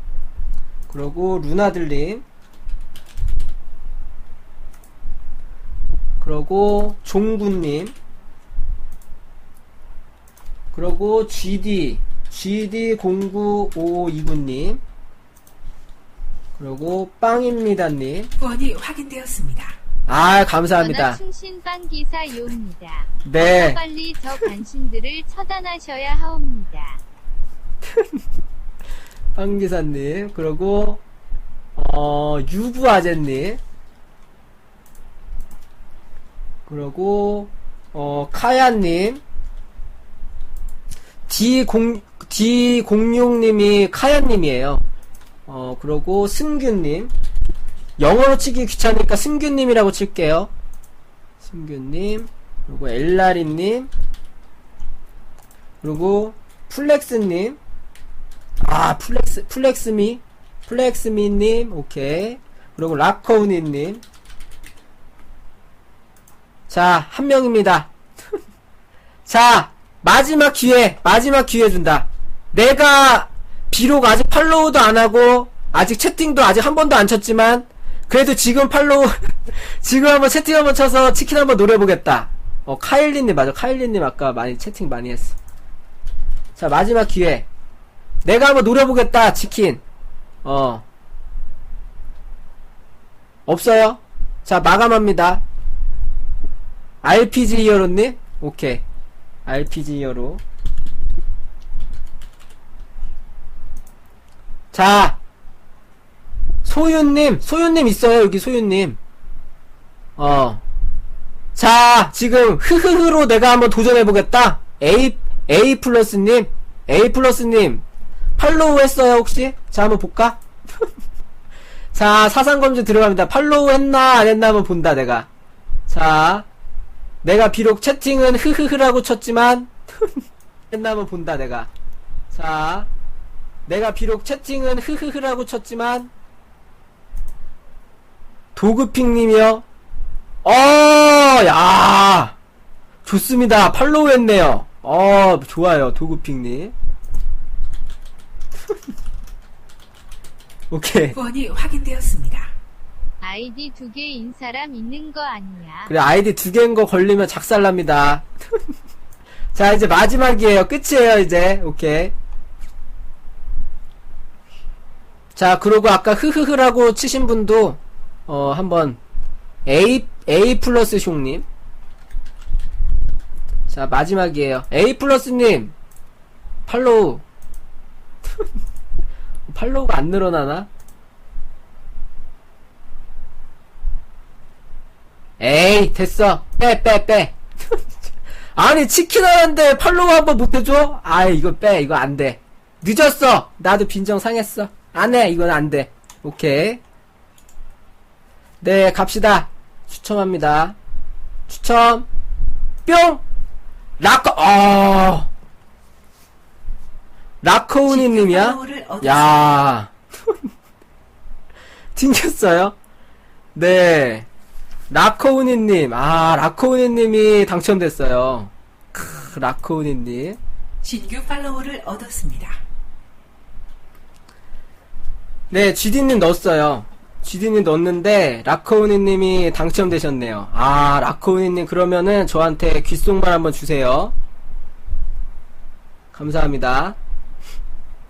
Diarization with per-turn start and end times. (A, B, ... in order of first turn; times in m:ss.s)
0:00.9-0:02.2 A
0:06.2-0:07.9 A
0:10.7-0:14.8 A
0:16.6-0:18.3 A
0:18.4-0:19.8 B
0:20.1-0:21.2 A
0:20.8-0:27.0 C
0:23.2-0:23.8 A
0:29.3-0:31.0 A
0:31.8-0:33.6 A
0:36.6-0:39.2 A
0:41.3-0:44.8 A
0:45.5-0:47.1 A
0:48.0-0:50.5 A
0:51.4-0:53.9 A
0:55.8-0:57.6 A
0:58.6-1:04.0 A
1:06.7-1:07.9 A
1:09.2-1:25.4 A
1:26.6-1:27.5 A
1:28.2-1:29.8 A
1:30.4-1:30.8 A
1:33.5-1:35.4 A
1:37.0-1:38.8 A
1:39.4-1:40.4 A
1:44.7-1:45.2 A
1:46.6-1:49.0 A
1:50.2-1:50.6 A
1:51.5-1:57.8 A
1:58.4-2:00.4 A
2:01.9-2:05.3 A
2:05.9-2:06.5 A
2:07.2-2:09.7 A
2:10.7-2:11.7 A
2:12.3-2:12.9 A
2:13.7-2:16.1 A
2:18.5-2:19.6 A
2:20.4-2:22.4 A
2:23.0-2:26.7 A
2:30.7-2:31.2 A
2:31.1-2:32.5 B
2:33.2-2:35.9 C
2:35.9-2:38.2 A
2:39.5-2:42.1 A
2:45.3-2:49.0 A
2:49.6-2:51.4 A
2:53.7-2:55.7 A
2:56.7-2:57.2 A
2:59.5-3:00.7 A
3:05.4-3:07.4 A
3:08.6-3:16.8 A
3:18.6-3:20.8 A
3:21.5-3:22.1 A
3:22.8-3:23.2 A
3:24.0-3:25.3 A
3:27.4-3:29.9 A
3:27.8-3:29.4 B
3:31.9-3:32.7 A
3:33.5-3:34.3 A
3:34.9-3:40.4 A
3:40.8-3:42.6 B
3:45.5-3:54.1 A
3:56.1-3:57.0 A